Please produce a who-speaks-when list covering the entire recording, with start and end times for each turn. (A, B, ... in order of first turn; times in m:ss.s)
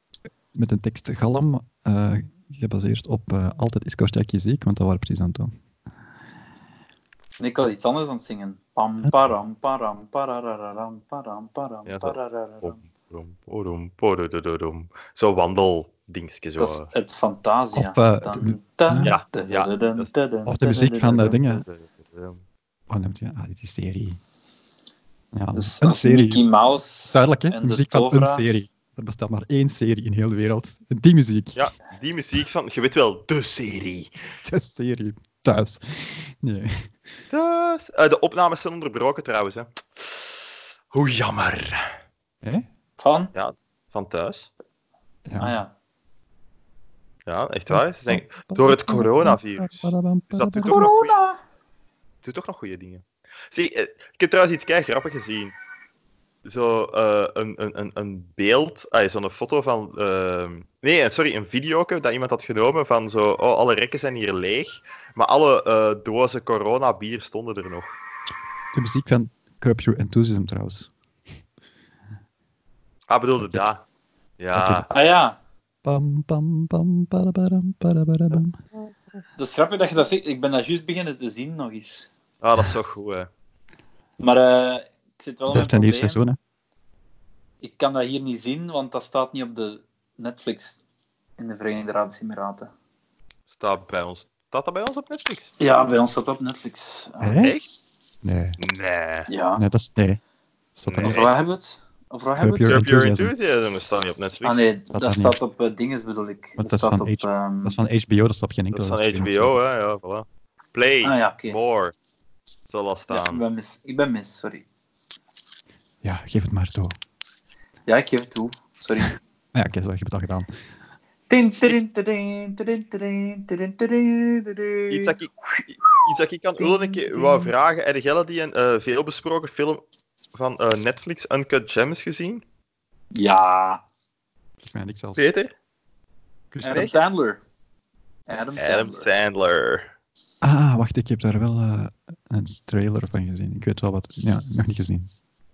0:00.5-0:05.5 A
0:07.4-0:12.8 B
0:11.9-0:16.9 C
0:16.6-0:21.4 B
0:17.8-0:19.2 A
0:19.0-0:20.1 C
0:20.5-0:21.6 A
0:21.3-0:22.4 C
0:22.9-0:24.2 A
0:25.3-0:26.4 A
0:25.5-0:28.4 B
0:27.0-0:31.7 A
0:31.6-0:34.2 C
0:34.4-0:36.9 A
0:37.3-0:40.4 C
0:40.9-0:41.9 C
0:42.4-0:42.7 A
0:43.0-0:43.3 B
0:43.3-0:44.5 C
0:45.3-0:45.6 A
0:45.4-0:45.7 B
0:47.3-0:51.2 C
0:47.7-0:50.9 A
0:50.7-0:51.4 B
0:52.2-0:55.6 C
0:56.4-1:07.9 C
1:08.7-1:10.9 A
1:13.1-1:13.8 C
1:13.4-1:13.7 A
1:14.4-1:14.9 C
1:14.5-1:14.9 A
1:14.9-1:15.4 B
1:15.8-1:18.6 A
1:19.4-1:22.1 B
1:22.4-1:23.3 C
1:24.2-1:26.2 B
1:25.5-1:26.4 A
1:27.6-1:30.8 B
1:31.4-1:32.7 B
1:33.5-1:35.5 C
1:35.6-1:37.5 B
1:37.2-1:37.5 A
1:37.4-1:37.7 C
1:38.2-1:38.6 A
1:38.6-1:39.3 C
1:39.3-1:39.6 B
1:39.6-1:40.2 A
1:40.8-1:41.2 A
1:40.9-1:41.3 C
1:41.0-1:42.8 B
1:42.4-1:43.3 A
1:42.7-1:44.6 C
1:44.4-1:47.8 B
1:44.9-1:45.4 A
1:46.6-1:49.6 A
1:48.7-1:52.0 C
1:51.0-1:51.6 B
1:52.7-1:53.4 C
1:53.1-1:54.6 B
1:56.0-1:57.0 A
1:57.9-1:59.1 B
1:59.5-2:00.5 A
2:01.3-2:06.0 B
2:04.9-2:09.8 C
2:06.6-2:07.5 B
2:10.3-2:12.4 C
2:13.2-2:13.8 B
2:14.6-2:15.2 A
2:15.2-2:15.5 C
2:16.6-2:17.4 B
2:16.6-2:17.0 C
2:18.3-2:19.1 B
2:18.6-2:19.9 C
2:20.4-2:25.1 A